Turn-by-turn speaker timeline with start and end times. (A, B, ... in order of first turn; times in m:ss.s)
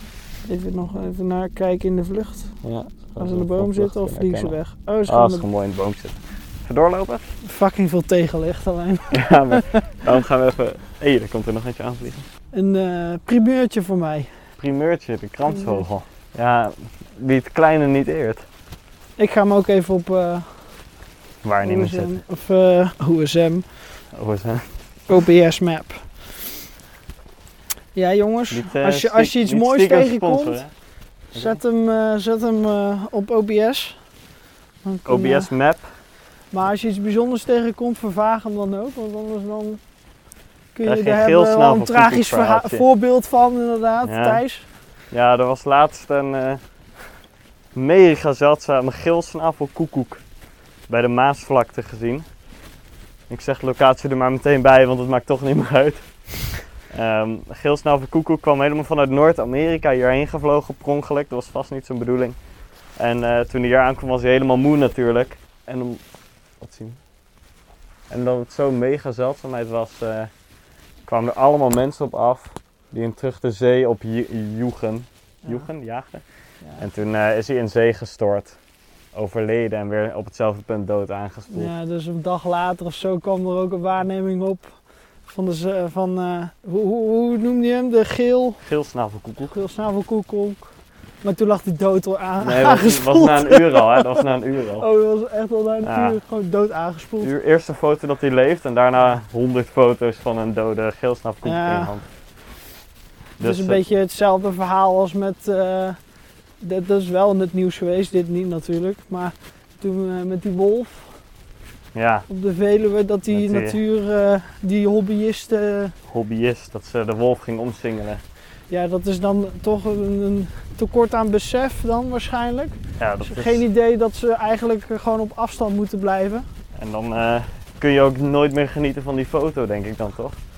0:00.4-0:02.6 A
0:02.6-0:07.3 B
0:03.2-0:05.5 A
0:07.4-0:10.0 A
0:09.1-0:12.3 B
0:12.5-0:14.4 A
0:14.6-0:18.5 B
0:15.5-0:15.9 A
0:19.2-0:20.7 A
0:21.4-0:22.2 B
0:21.6-0:23.8 A
0:24.1-0:24.8 B
0:25.1-0:26.6 A
0:27.9-0:30.6 A
0:28.5-0:30.7 B
0:31.3-0:34.0 A
0:31.3-0:31.6 B
0:34.8-0:35.5 A
0:35.1-0:35.9 B
0:36.5-0:39.8 A
0:40.7-0:44.7 A
0:40.8-0:42.9 B
0:44.0-0:44.4 B
0:45.1-0:46.6 B
0:47.7-0:50.2 B
0:50.9-0:52.3 B
0:53.3-1:02.4 B
1:02.9-1:06.0 B
1:06.6-1:07.0 B
1:08.1-1:10.3 B
1:11.0-1:16.2 B
1:15.4-1:15.7 A
1:16.6-1:16.9 A
1:16.8-1:18.6 B
1:19.1-1:21.7 B
1:21.5-1:28.6 A
1:28.6-1:29.6 B
1:29.5-1:30.7 A
1:31.2-1:34.2 A
1:32.4-1:34.9 B
1:34.8-1:37.3 A
1:35.8-1:36.2 B
1:37.2-1:42.1 B
1:41.4-1:42.0 A
1:43.4-1:43.9 B
1:43.4-1:46.0 A
1:46.6-1:51.1 A
1:51.9-1:52.3 B
1:52.3-1:56.0 A
1:53.3-1:53.8 B
1:56.1-1:58.2 B
1:58.7-2:06.5 A
2:03.0-2:03.6 B
2:06.7-2:10.4 B